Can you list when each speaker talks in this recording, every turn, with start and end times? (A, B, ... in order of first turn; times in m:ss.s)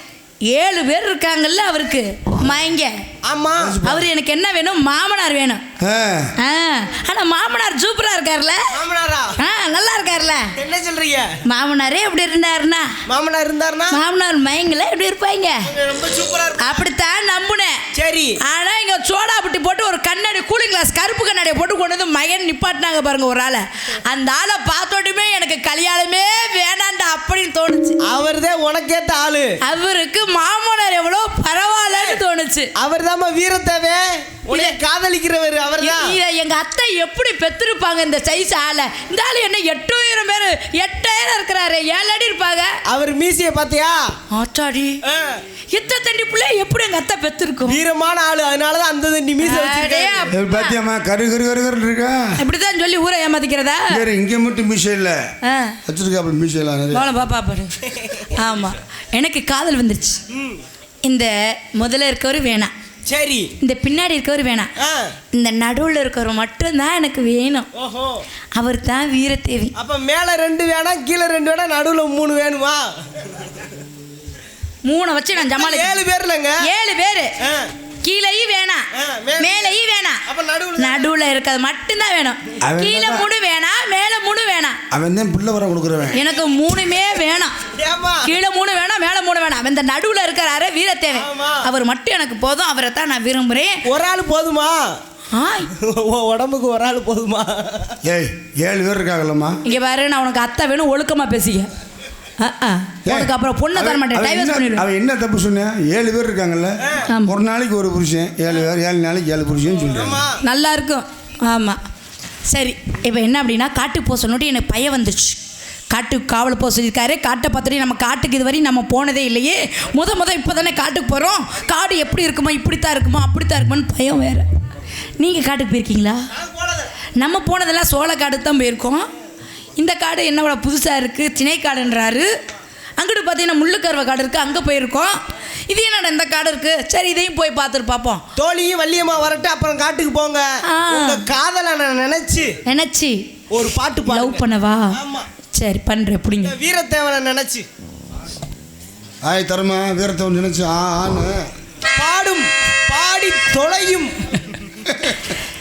0:00.5-0:03.0 A
0:03.3-0:03.8 B
0:03.6-0:04.1 C
0:03.8-0:05.6 A
0:05.8-0:06.3 C
0:06.4-0:08.6 A
0:08.7-0:09.4 B
0:09.4-0:10.5 A
0:10.6-0:11.4 B
0:11.5-0:12.9 A
0:13.1-0:14.0 B
0:13.9-0:15.7 A
0:15.7-0:16.8 B
0:16.6-0:17.8 A
0:17.9-0:18.4 B
0:18.4-0:28.0 A
0:28.1-0:29.6 B
0:29.6-0:32.7 A
0:32.8-0:36.2 B
0:34.5-0:34.8 A
0:35.8-0:42.8 A
0:42.9-0:44.1 B
0:44.3-0:45.0 A
0:45.1-0:45.4 B
0:45.7-0:47.8 A
0:47.6-0:50.3 B
0:49.4-0:50.8 A
0:50.3-0:52.4 C
0:52.4-0:54.0 A
0:53.9-0:55.2 C
0:55.4-0:55.8 A
0:55.9-0:57.1 C
0:56.9-0:57.8 A
0:57.9-0:58.3 B
0:58.3-1:00.2 A
1:00.3-1:00.6 B
1:01.0-1:02.7 A
1:03.1-1:03.5 B
1:03.6-1:04.7 A
1:04.8-1:05.1 B
1:05.3-1:07.7 A
1:07.8-1:08.2 B
1:08.6-1:09.7 A
1:09.8-1:12.9 B
1:14.8-1:16.0 A
1:15.4-1:16.6 B
1:16.6-1:17.3 A
1:17.4-1:17.7 B
1:18.0-1:18.9 A
1:19.0-1:21.1 B
1:19.4-1:20.2 A
1:20.8-1:24.8 A
1:22.6-1:23.3 C
1:24.9-1:26.2 C
1:26.1-1:27.6 A
1:27.8-1:28.3 B
1:28.2-1:33.8 A
1:31.2-1:31.6 B
1:33.9-1:35.0 B
1:35.3-1:35.7 A
1:35.7-1:38.0 B
1:38.1-1:39.6 C
1:39.6-1:41.7 A
1:42.4-1:44.9 A
1:43.1-1:50.2 C
1:47.1-1:47.4 A
1:49.9-1:50.4 B
1:50.4-1:51.8 A
1:52.5-1:55.4 A
1:55.9-2:04.5 A
2:05.2-2:06.2 A
2:06.4-2:06.9 B
2:07.2-2:09.1 A
2:09.8-2:12.3 A
2:13.0-2:18.2 A
2:18.4-2:22.5 B
2:20.7-2:21.2 A
2:22.7-2:23.2 A
2:23.5-2:24.4 B
2:24.0-2:25.0 A
2:25.0-2:25.3 B
2:25.5-2:26.6 A
2:26.4-2:27.7 B
2:29.2-2:31.5 C
2:32.0-2:34.6 B